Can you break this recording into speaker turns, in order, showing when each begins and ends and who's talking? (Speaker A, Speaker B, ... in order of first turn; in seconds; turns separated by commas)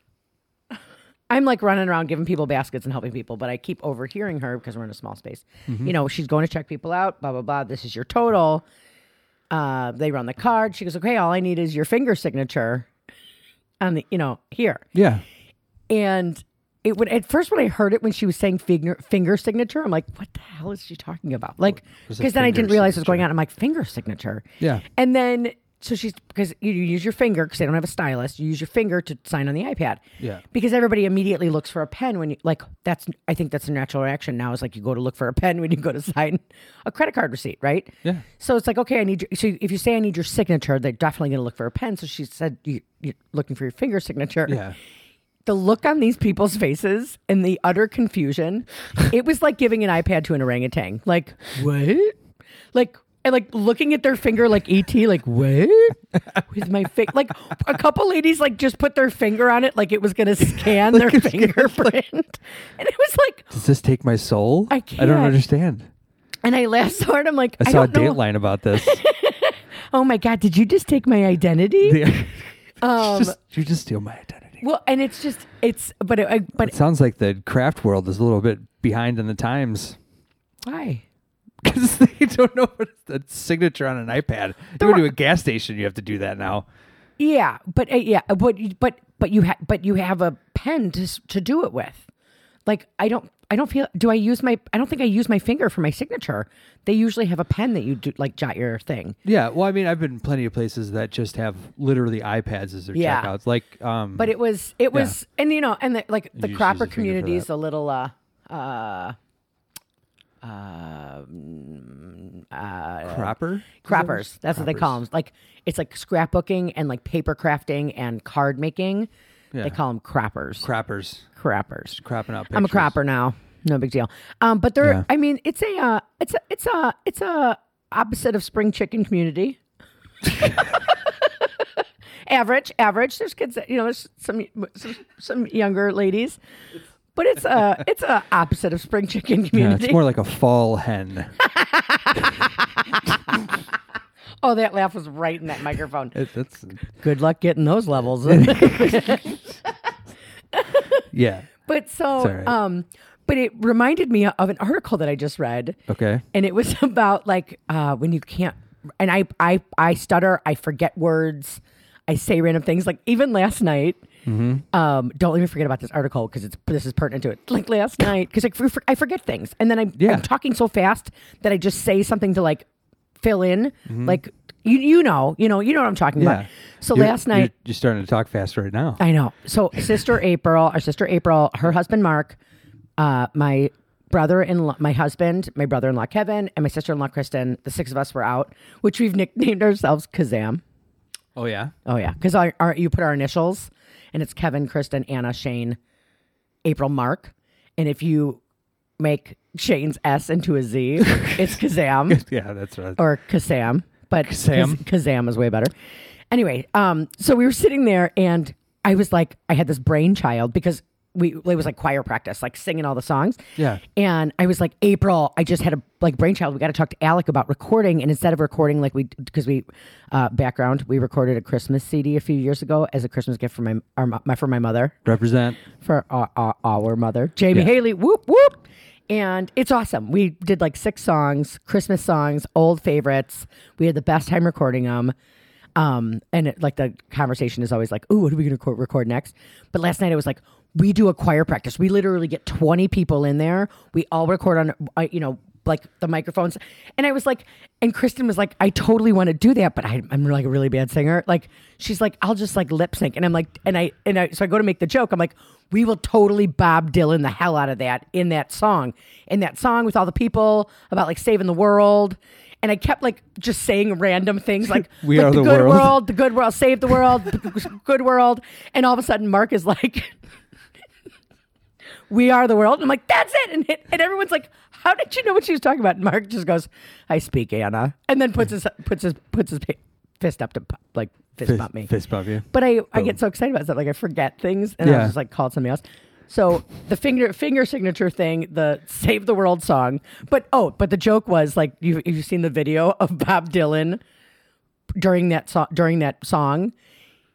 Speaker A: 1.3-8.6, Speaker B: 5.7-5.9, Speaker A: 9.5-12.9, Speaker A: 13.8-14.8, Speaker B: 14.9-15.2, Speaker A: 15.9-44.6, Speaker B: 21.8-23.2, Speaker B: 44.5-44.8, Speaker A: 45.4-52.1, Speaker A: 52.7-63.5, Speaker B: 60.4-61.9, Speaker B: 63.5-65.9, Speaker A: 64.7-65.4, Speaker A: 66.4-68.2, Speaker B: 67.6-69.0, Speaker A: 68.7-72.0, Speaker B: 71.8-74.6, Speaker A: 72.8-73.4, Speaker A: 74.6-76.7, Speaker B: 76.6-80.0, Speaker A: 80.6-81.0, Speaker B: 81.6-86.7, Speaker A: 84.8-85.0, Speaker A: 87.2-92.1, Speaker A: 92.7-99.2, Speaker B: 99.2-104.3, Speaker A: 102.9-103.3, Speaker A: 104.2-109.2, Speaker B: 106.3-107.5, Speaker A: 110.4-119.1, Speaker B: 113.0-115.0, Speaker B: 119.5-119.8, Speaker A: 119.6-120.7, Speaker B: 120.6-121.3, Speaker A: 121.3-122.0, Speaker B: 121.9-122.9, Speaker A: 122.5-129.6, Speaker A: 130.3-131.3, Speaker A: 132.2-136.4, Speaker A: 137.1-140.0, Speaker B: 139.5-141.4, Speaker A: 141.4-143.5, Speaker A: 144.4-146.2, Speaker B: 146.1-146.8, Speaker A: 146.9-149.7, Speaker B: 148.2-149.4, Speaker A: 150.5-151.0, Speaker B: 151.1-151.5, Speaker A: 151.6-155.8, Speaker B: 152.2-152.6, Speaker B: 155.9-156.2, Speaker A: 156.3-164.0, Speaker B: 164.2-164.6, Speaker A: 164.7-172.7, Speaker B: 170.0-170.3, Speaker A: 173.2-177.5, Speaker B: 173.9-174.2, Speaker B: 176.2-179.0, Speaker A: 179.0-182.4, Speaker A: 183.0-190.6, Speaker B: 191.3-191.7, Speaker A: 191.8-195.8, Speaker A: 196.6-198.4, Speaker A: 199.0-202.2, Speaker B: 201.0-201.5, Speaker B: 202.1-203.0, Speaker A: 203.0-205.7, Speaker B: 204.2-204.8, Speaker A: 206.3-225.0, Speaker B: 213.6-213.8, Speaker B: 225.0-225.6, Speaker A: 225.7-235.1, Speaker A: 235.8-270.1, Speaker B: 264.7-266.0, Speaker A: 272.1-281.9, Speaker B: 281.4-283.1, Speaker A: 282.5-294.0, Speaker B: 284.8-285.1, Speaker A: 295.0-296.7